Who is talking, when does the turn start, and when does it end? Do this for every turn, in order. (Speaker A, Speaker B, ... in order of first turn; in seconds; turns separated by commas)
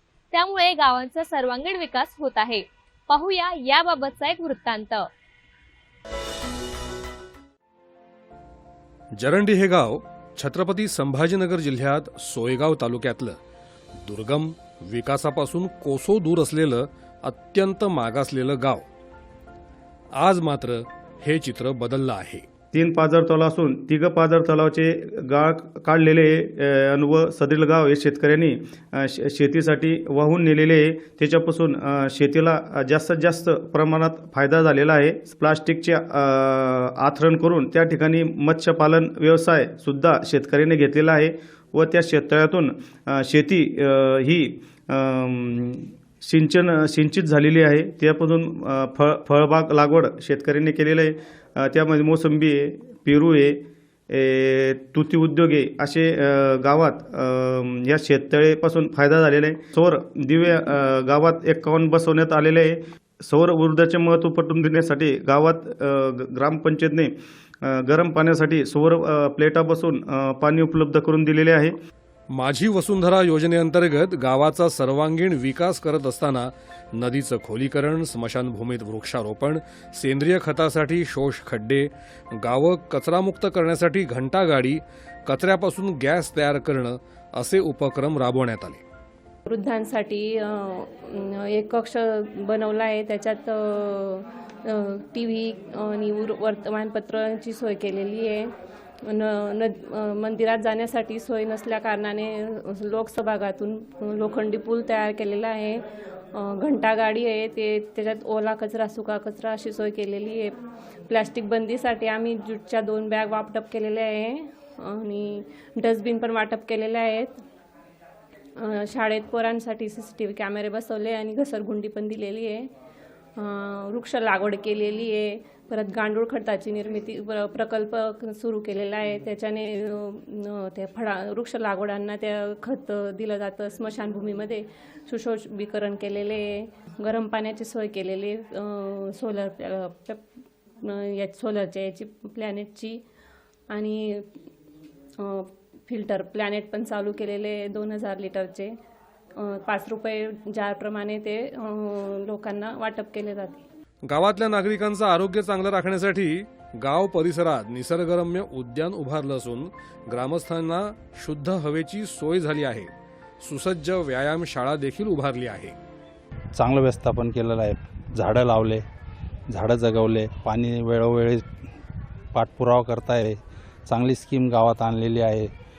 Speaker A: 0.3-5.1, Speaker B: 9.2-13.4, Speaker B: 13.9-18.9, Speaker B: 20.1-22.4, Speaker C: 22.7-71.8, Speaker B: 72.3-88.8, Speaker D: 89.5-110.5, Speaker D: 111.1-117.4, Speaker D: 118.6-122.7, Speaker D: 123.4-140.3, Speaker D: 140.8-143.0, Speaker D: 143.7-144.4, Speaker D: 145.2-148.8, Speaker D: 149.3-153.6, Speaker B: 154.0-165.8, Speaker E: 166.6-168.8, Speaker E: 169.5-171.4, Speaker E: 172.3-175.5